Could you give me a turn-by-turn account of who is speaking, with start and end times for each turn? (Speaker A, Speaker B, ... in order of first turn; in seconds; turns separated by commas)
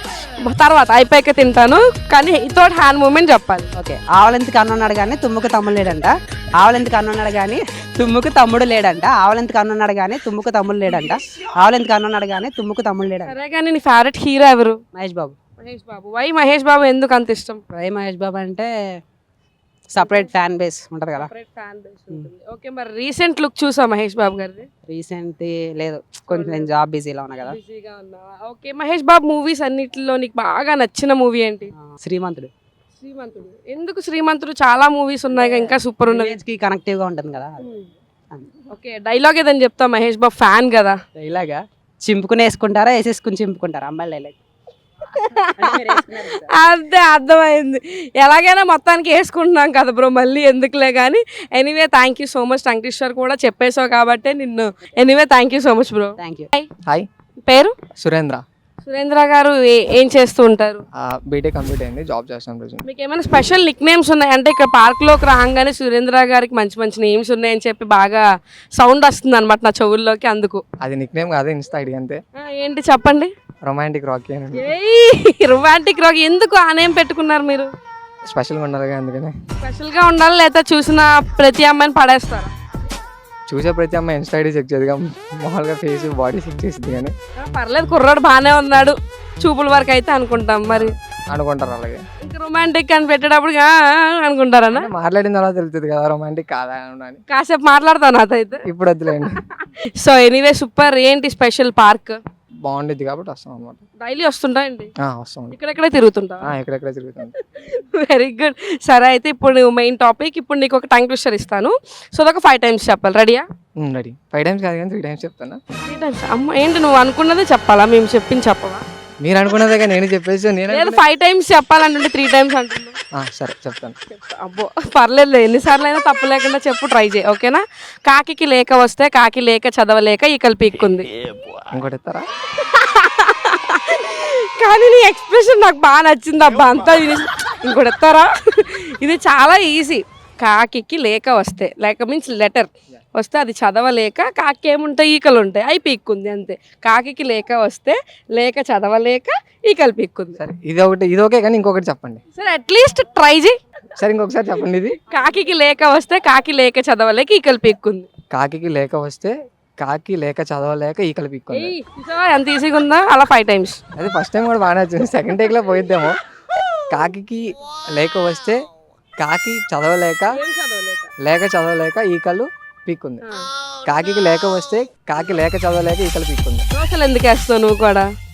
Speaker A: 0.4-3.7, Speaker B: 3.8-13.3, Speaker A: 13.2-14.8, Speaker B: 14.9-15.3, Speaker A: 15.6-17.6, Speaker B: 17.7-18.7, Speaker B: 19.9-21.3, Speaker A: 20.0-20.3, Speaker A: 21.1-24.7, Speaker B: 24.9-27.6, Speaker A: 26.3-26.7, Speaker A: 27.4-31.7, Speaker B: 31.8-32.5, Speaker A: 33.0-36.4, Speaker B: 35.4-37.6, Speaker A: 37.6-37.9, Speaker A: 38.7-41.0, Speaker B: 41.2-44.4, Speaker A: 45.1-56.7, Speaker B: 45.6-46.5, Speaker B: 56.2-56.5, Speaker A: 57.5-57.7, Speaker C: 58.0-58.4, Speaker A: 58.9-60.8, Speaker C: 61.0-62.8, Speaker A: 62.9-68.2, Speaker A: 68.8-70.6, Speaker C: 70.8-72.2, Speaker A: 72.3-73.3, Speaker C: 73.6-74.7, Speaker A: 74.5-77.7, Speaker C: 78.3-79.3, Speaker A: 79.6-82.5, Speaker C: 83.5-87.1, Speaker A: 87.4-90.9, Speaker C: 90.7-92.0, Speaker A: 92.2-94.9, Speaker C: 94.7-97.2, Speaker A: 97.3-98.6, Speaker C: 98.6-99.4, Speaker A: 100.0-102.2, Speaker C: 102.6-103.8, Speaker A: 104.0-104.9, Speaker C: 105.0-105.5, Speaker A: 105.5-106.5, Speaker C: 106.4-107.3, Speaker A: 107.5-113.4, Speaker C: 113.8-115.6, Speaker A: 115.8-118.8, Speaker C: 119.2-121.0, Speaker A: 120.7-123.0, Speaker C: 123.1-124.0, Speaker A: 124.2-131.1, Speaker C: 131.7-132.2, Speaker A: 132.6-150.4, Speaker C: 150.4-152.2, Speaker A: 152.3-153.6, Speaker C: 154.0-155.0, Speaker A: 155.1-158.1, Speaker C: 158.3-161.7, Speaker A: 161.5-163.8, Speaker C: 163.9-166.2, Speaker C: 166.9-168.6, Speaker C: 169.2-170.4, Speaker A: 170.3-171.1, Speaker C: 171.2-173.2, Speaker C: 173.8-176.6, Speaker A: 176.7-178.1